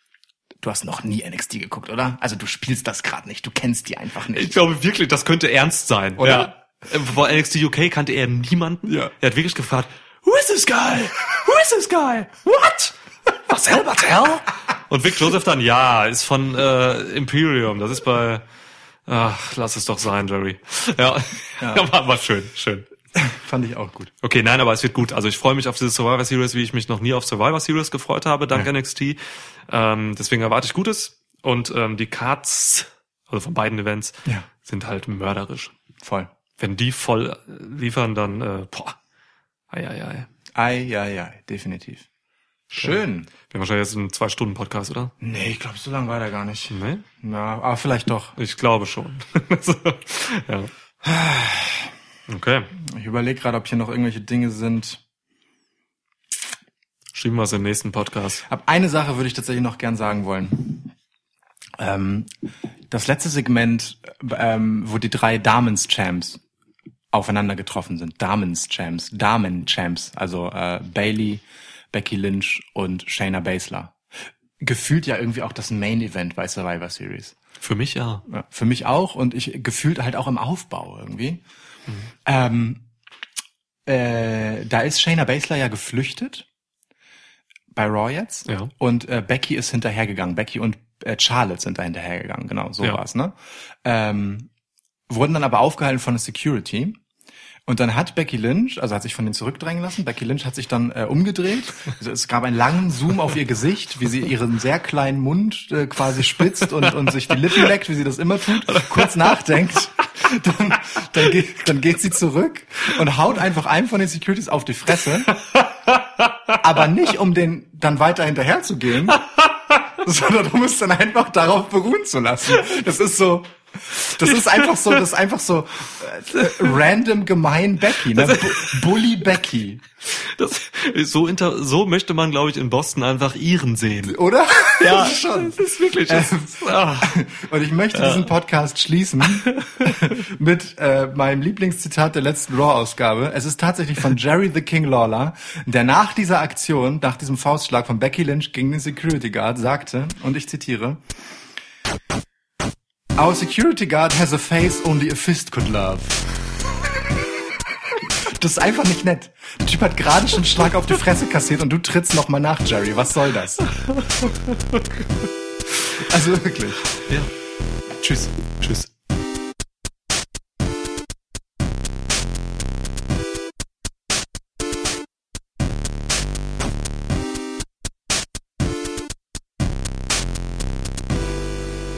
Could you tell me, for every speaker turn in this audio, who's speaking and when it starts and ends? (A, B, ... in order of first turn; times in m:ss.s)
0:00.6-0:04.6 A
0:04.3-0:18.4 B
0:06.2-0:06.5 A
0:08.9-0:09.1 A
0:19.1-0:22.9 B
0:21.6-0:21.9 A
0:23.2-0:24.1 A
0:24.2-0:35.7 B
0:36.0-0:36.3 A
0:36.6-0:39.0 B
0:39.7-0:40.3 B
0:40.6-0:42.1 A
0:42.7-0:43.3 A
0:42.7-0:45.1 B
0:45.2-0:48.4 A
0:46.7-0:47.0 B
0:48.4-0:50.7 B
0:51.0-0:51.9 A
0:52.3-0:52.7 B
0:52.8-0:55.0 A
0:57.2-0:58.4 B
0:58.4-1:00.9 A
1:01.8-1:02.3 A
1:02.9-1:06.4 A
1:07.1-1:14.0 A
1:14.6-1:17.4 A
1:17.6-1:18.2 B
1:18.3-1:21.4 A
1:22.2-1:22.8 A
1:23.9-1:26.4 A
1:27.7-1:34.5 A
1:28.4-1:28.7 B
1:35.1-1:37.0 A
1:37.7-1:55.4 A
1:48.7-1:49.1 B
1:55.3-1:56.6 B
1:56.6-1:59.3 A
1:59.9-2:09.8 A
2:04.2-2:05.0 B
2:08.1-2:08.8 B
2:10.1-2:14.2 B
2:14.1-2:31.0 A
2:14.7-2:17.2 B
2:17.9-2:18.3 B
2:19.5-2:19.9 B
2:33.2-2:36.2 A
2:38.2-2:43.7 A
2:43.9-2:44.9 B
2:46.0-2:46.9 A
2:47.1-2:47.3 B
2:48.0-2:48.9 B